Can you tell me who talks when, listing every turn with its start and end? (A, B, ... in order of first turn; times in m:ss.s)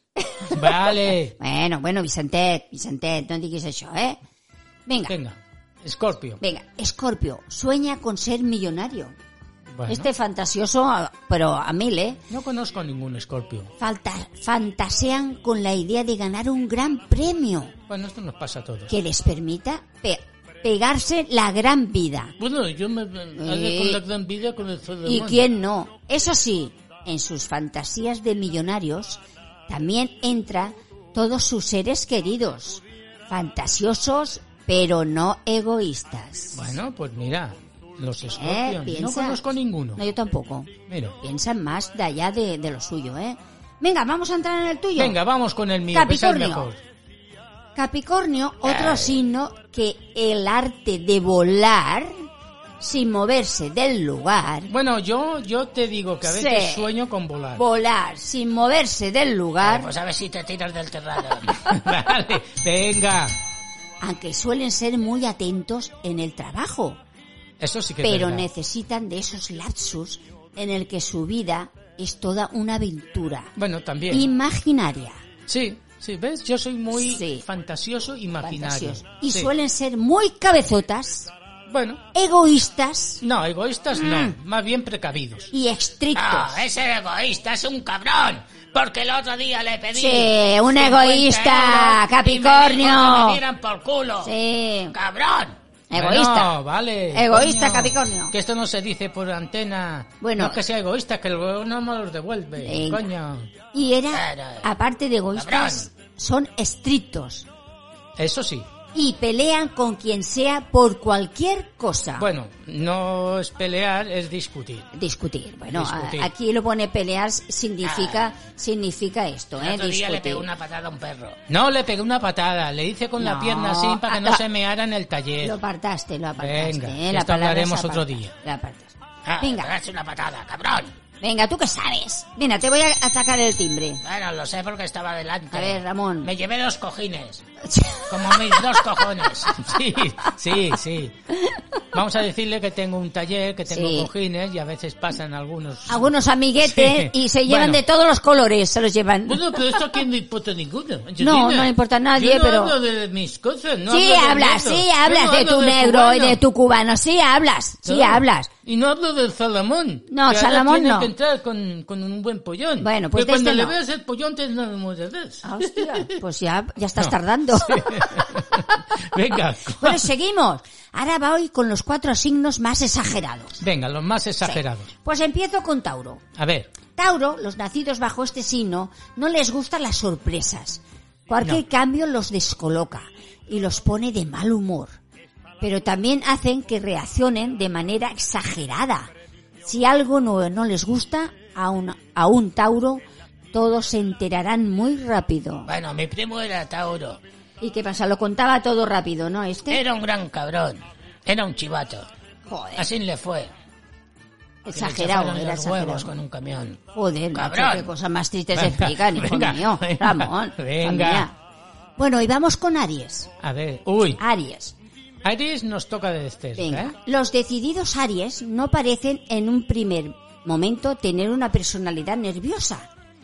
0:00.2-0:00.9 A
0:00.5-0:01.4 B
0:01.4-0:04.2 A
0:04.9-0:05.2 A
0:05.1-0:06.4 B
0:06.4-0:09.2 A
0:09.7-0:10.1 B
0:09.9-0:12.2 A
0:12.3-0:13.7 B
0:13.8-0:17.7 A
0:17.9-0:18.9 B
0:18.9-0:22.4 A
0:22.4-0:25.5 B
0:23.4-0:24.0 A
0:25.0-0:36.6 A
0:36.5-0:40.0 B
0:38.3-0:39.4 A
0:40.0-0:45.2 A
0:40.9-0:41.2 B
0:45.0-0:46.8 B
0:45.9-0:46.7 A
0:47.8-0:52.2 A
0:48.7-0:49.2 C
0:52.8-0:54.7 A
0:54.7-0:57.6 B
0:56.2-0:56.9 A
0:57.6-0:59.9 A
0:59.6-1:01.6 C
1:01.6-1:03.4 B
1:04.0-1:07.0 A
1:07.6-1:08.5 B
1:08.0-1:13.5 A
1:13.6-1:14.3 B
1:14.1-1:15.2 A
1:15.5-1:19.5 B
1:17.0-1:17.4 A
1:18.4-1:21.3 A
1:21.7-1:22.0 B
1:22.1-1:23.2 A
1:23.2-1:25.5 B
1:24.0-1:24.4 A
1:25.5-1:26.6 A
1:26.1-1:34.3 C
1:29.9-1:33.4 A
1:34.2-1:35.0 A
1:34.9-1:35.6 C
1:35.9-1:36.6 A
1:35.9-1:43.5 B
1:37.1-1:38.3 A
1:40.2-1:40.6 A
1:42.6-1:43.1 A
1:43.7-1:47.5 A
1:44.1-1:44.7 C
1:45.3-1:45.9 C
1:48.2-1:48.7 B
1:48.9-1:52.3 A
1:52.2-1:54.9 B
1:55.0-2:00.5 A
1:55.7-1:56.3 B
1:57.8-1:58.3 C
1:59.6-2:01.4 C
2:01.5-2:05.6 B
2:03.2-2:04.4 A
2:05.4-2:09.7 A
2:06.4-2:08.3 B
2:09.3-2:10.9 C
2:11.2-2:14.0 A
2:14.0-2:17.4 C
2:15.5-2:16.3 A
2:17.6-2:18.8 A
2:18.1-2:19.6 C
2:19.5-2:21.2 B
2:21.9-2:27.8 B
2:23.7-2:24.1 A
2:25.9-2:30.0 A
2:29.3-2:36.4 B
2:31.2-2:32.8 A
2:33.9-2:38.5 A
2:37.8-2:46.2 B
2:40.1-2:41.1 A
2:42.8-2:43.8 A
2:45.4-2:48.2 A
2:47.0-2:50.1 B
2:49.8-2:53.6 A
2:53.6-2:54.9 B
2:54.4-2:56.2 A
2:56.4-2:56.7 B
2:57.0-3:05.0 A
3:05.6-3:09.1 A
3:09.6-3:13.0 A
3:13.5-3:15.7 A
3:15.7-3:17.2 C
3:17.6-3:19.8 A
3:19.7-3:22.1 C
3:22.5-3:22.9 A
3:22.8-3:23.5 C
3:24.7-3:26.1 A
3:24.7-3:26.8 C
3:26.9-3:31.3 A
3:27.3-3:27.9 C
3:28.6-3:31.3 B
3:32.0-3:33.3 A
3:33.4-3:34.2 B
3:34.2-3:34.8 A
3:35.2-3:37.0 B
3:36.6-3:42.9 A